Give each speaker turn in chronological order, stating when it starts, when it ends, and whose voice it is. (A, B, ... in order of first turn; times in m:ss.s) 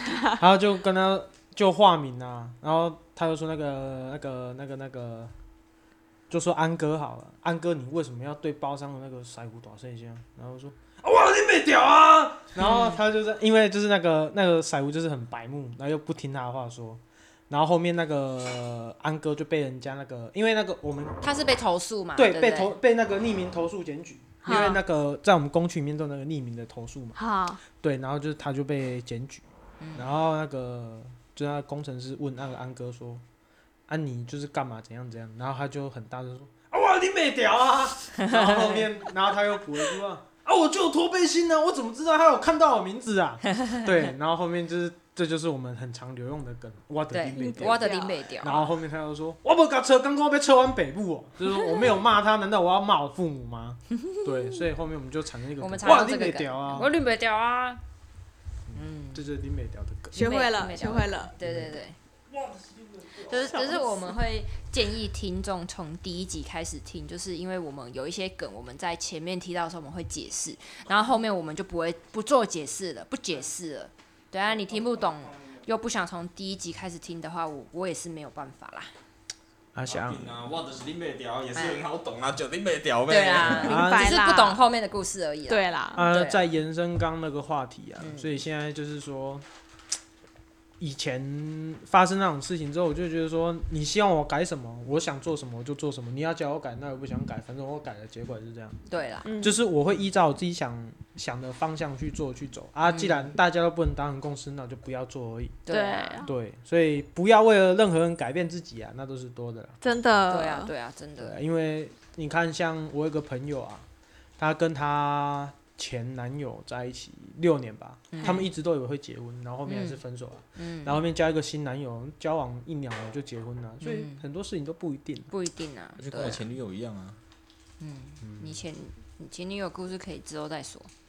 0:00.2-0:05.3 A
0:06.3-0:21.3 A
0:12.6-0:13.0 B
0:21.2-0:22.7 B
0:22.2-0:29.4 A
0:24.4-0:24.8 C
0:27.2-0:27.6 C
0:29.8-0:30.1 B
0:30.0-0:33.2 A
0:33.9-0:56.9 A
0:38.2-0:38.8 B
0:47.1-0:48.7 B
0:47.4-0:48.6 C
0:55.6-0:57.8 B
0:58.7-1:00.4 A
0:58.7-0:59.2 B
1:00.1-1:01.3 C
1:00.2-1:02.0 B
1:01.4-1:01.8 A
1:03.2-1:18.9 B
1:19.7-1:20.4 A
1:19.9-1:23.8 D
1:23.1-1:26.5 B
1:23.6-1:24.2 A
1:23.6-1:24.6 C
1:25.5-1:26.1 C
1:25.9-1:29.4 A
1:28.0-1:28.3 B
1:30.8-1:38.8 A
1:38.9-1:39.3 B
1:39.2-1:39.6 C
1:39.4-1:45.6 A
1:42.9-1:43.3 B
1:45.7-1:46.2 B
1:45.7-1:46.3 C
1:46.2-1:49.8 A
1:49.8-1:50.7 C
1:50.3-1:51.4 B
1:51.2-1:53.9 A
1:54.4-2:05.3 A
1:58.1-1:58.5 B
1:58.2-1:58.5 C
1:59.7-2:00.0 B
2:00.6-2:01.0 B
2:03.8-2:04.2 B
2:05.3-2:06.4 B
2:06.0-2:07.2 D
2:07.8-2:10.9 B
2:08.2-2:08.6 A